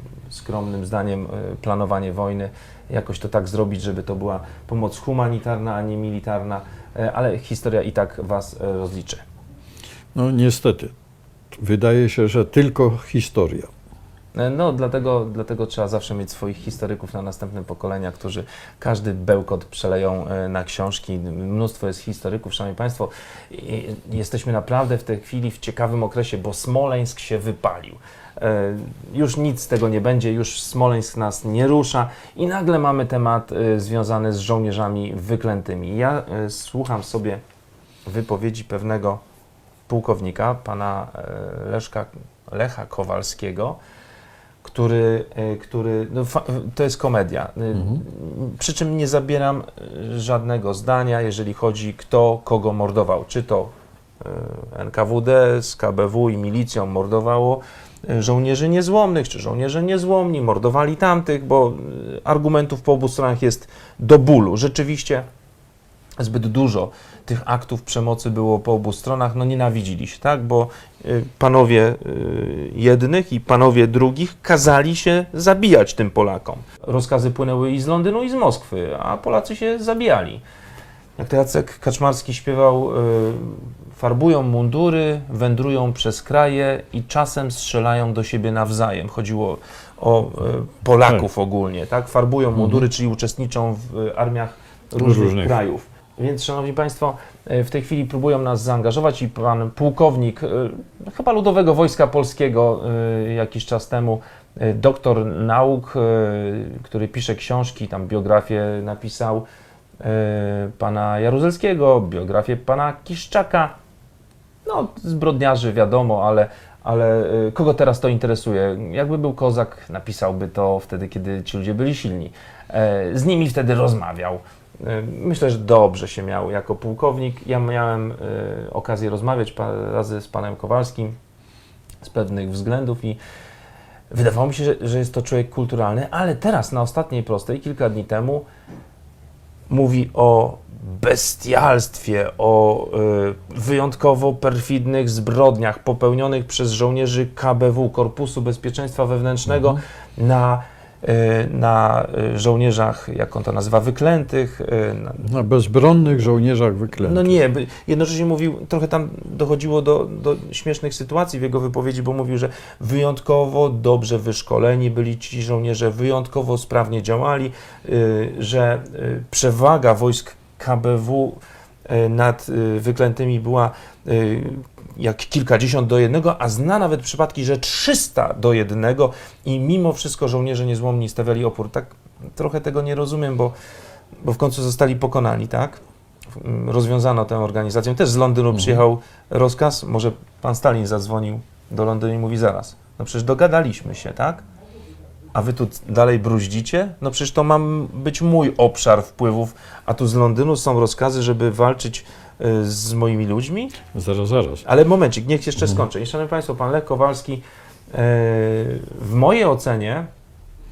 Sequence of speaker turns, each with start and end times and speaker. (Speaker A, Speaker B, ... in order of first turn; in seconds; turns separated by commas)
Speaker A: 0.3-9.2, Speaker B: 10.2-10.9, Speaker B: 11.6-13.7, Speaker A: 14.3-37.4, Speaker A: 38.1-39.2, Speaker A: 39.9-43.8, Speaker A: 44.6-65.3, Speaker A: 66.2-80.4, Speaker A: 81.2-109.5, Speaker B: 92.6-92.9, Speaker B: 95.0-95.6, Speaker A: 110.0-113.7, Speaker A: 114.7-131.2, Speaker A: 132.0-133.2, Speaker A: 134.1-138.5, Speaker A: 139.7-155.2, Speaker B: 149.5-149.8, Speaker B: 155.2-157.4, Speaker A: 157.0-183.6, Speaker A: 184.2-185.8, Speaker A: 186.3-194.4, Speaker B: 188.5-188.8, Speaker A: 195.3-203.8, Speaker B: 203.9-204.7, Speaker A: 204.7-210.1